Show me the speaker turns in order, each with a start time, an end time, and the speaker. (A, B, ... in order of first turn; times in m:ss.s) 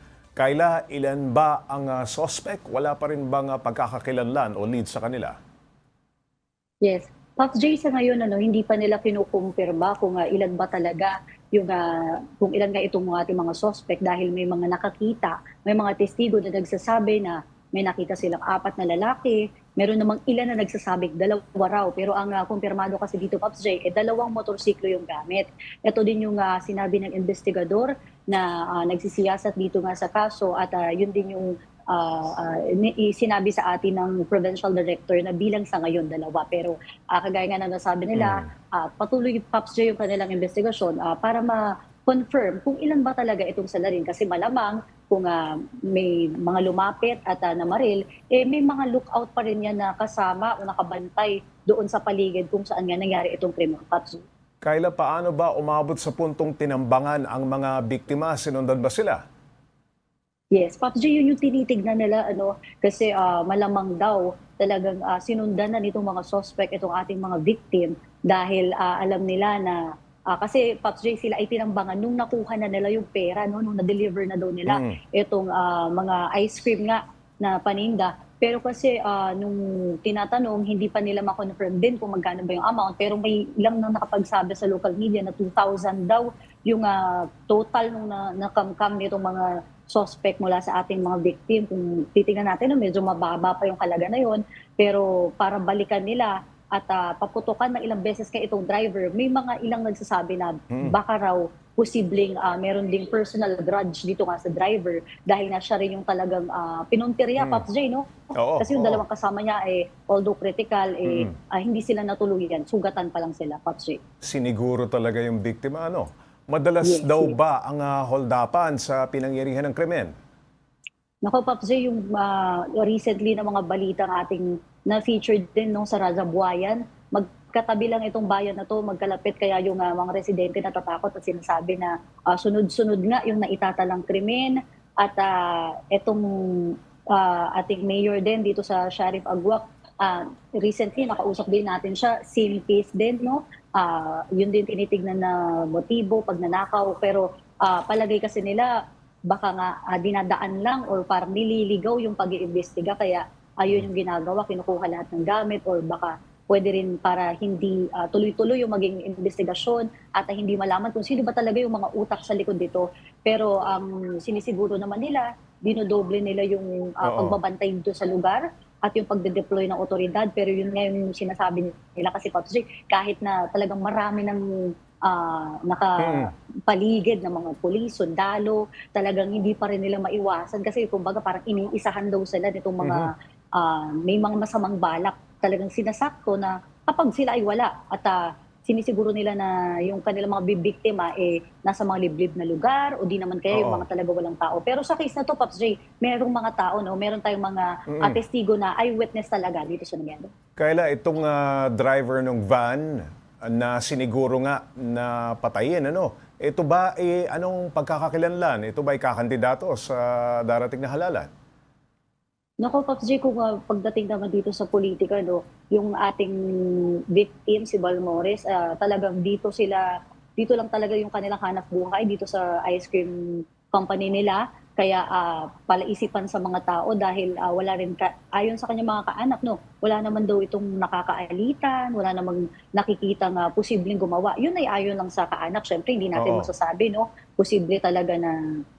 0:00.4-0:05.4 A
0:06.8-0:54.2 B
0:38.2-0:38.5 A
0:54.6-0:59.2 A
1:00.5-1:54.0 B
1:14.7-1:15.0 A
1:40.7-1:41.0 A
1:47.4-1:47.6 A
1:48.4-1:49.0 A
1:51.0-1:51.3 A
1:54.2-2:00.1 A
1:56.8-1:57.4 B
2:01.2-2:28.7 B
2:29.3-3:20.3 B
2:47.0-2:47.4 A
2:56.0-2:56.3 A
3:02.8-3:03.1 A
3:13.5-3:13.8 A
3:17.9-3:18.2 A
3:20.6-3:31.3 A
3:32.6-3:43.2 B
3:43.7-3:58.4 B
3:56.2-3:56.5 A